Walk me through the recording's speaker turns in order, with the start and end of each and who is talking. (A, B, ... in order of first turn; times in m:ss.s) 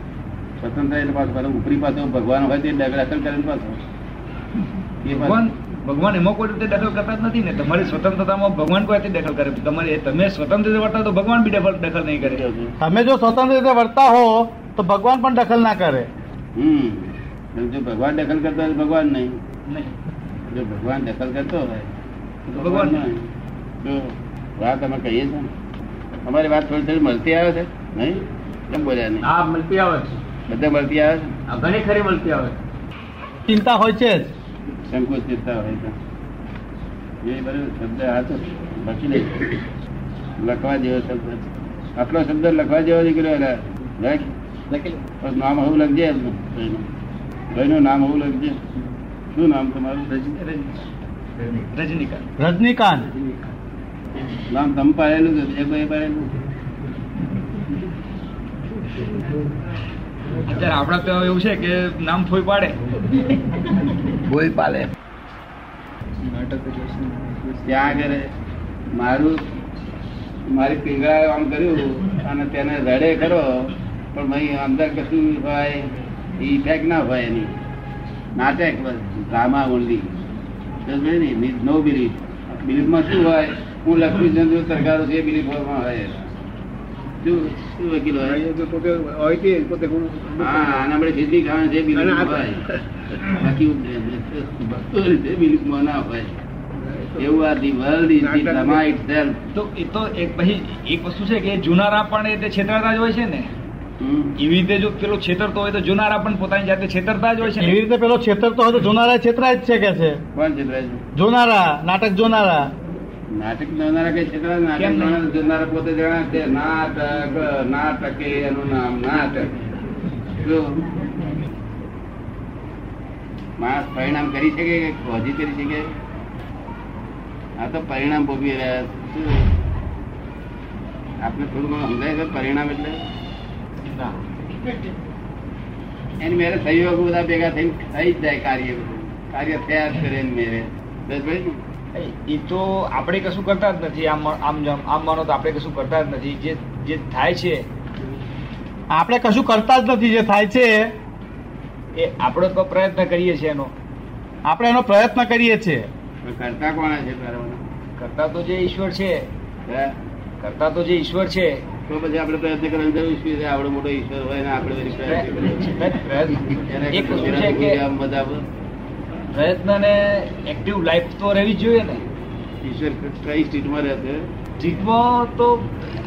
0:00.6-0:03.8 A
0:05.0-0:05.4 A
0:05.1-0:12.4 B
0:12.2-0:12.7 A
0:12.8-0:16.1 C
0:16.6-0:19.4 A
0:19.7-0:19.9 B
0:20.5-0:21.9 A
0:22.5-0:23.3 A
0:22.5-0:23.1 B
0:23.8-0:25.5 A
0:26.3-0:29.3 A
0:29.2-0:30.1 D
0:30.5-0:31.4 A
0:31.5-0:32.6 D
0:33.5-0:34.3 C
0:34.9-0:35.9 A
0:37.2-0:39.5 A
0:40.4-0:41.5 A
0:42.0-0:44.3 A
0:45.2-0:46.8 A
0:47.5-0:48.6 A
0:49.3-0:50.2 A
0:50.2-0:50.7 B
0:51.6-0:52.3 B
0:52.4-0:53.1 C
0:54.5-0:56.3 A
1:00.4-1:02.8 B
1:04.3-1:04.9 D
1:06.3-1:07.4 B
1:06.4-1:07.1 D
1:07.6-1:08.3 A
1:09.0-1:09.4 A
1:10.5-1:15.8 A
1:16.4-1:17.5 A
1:18.4-1:20.1 A
1:20.9-1:26.3 A
1:27.2-1:28.5 A
1:28.3-1:30.8 E
1:30.4-1:36.4 A
1:32.0-1:32.5 E
1:36.8-1:37.2 E
1:37.2-1:39.4 A
1:38.2-1:38.8 E
1:39.5-1:43.5 B
1:44.0-1:44.3 A
1:44.4-1:47.8 B
1:47.5-1:50.2 C
1:50.3-1:51.0 A
1:51.2-1:52.7 C
1:53.4-1:59.5 A
1:54.8-1:55.2 B
2:00.4-2:00.8 A
2:03.6-2:05.9 A
2:07.6-2:09.5 A
2:11.2-2:13.0 A
2:13.8-2:14.2 B
2:16.2-2:21.6 A
2:22.0-2:27.7 B
2:28.9-2:30.9 C
2:32.0-2:33.7 B
2:34.5-2:35.9 C
2:36.2-2:37.6 A
2:38.0-2:39.3 B
2:39.7-2:39.9 A
2:40.4-2:41.7 B
2:41.9-2:45.8 A
2:45.0-2:47.8 B
2:46.7-2:48.4 A
2:49.3-2:52.0 B
2:52.6-2:54.2 A
2:54.6-2:55.7 B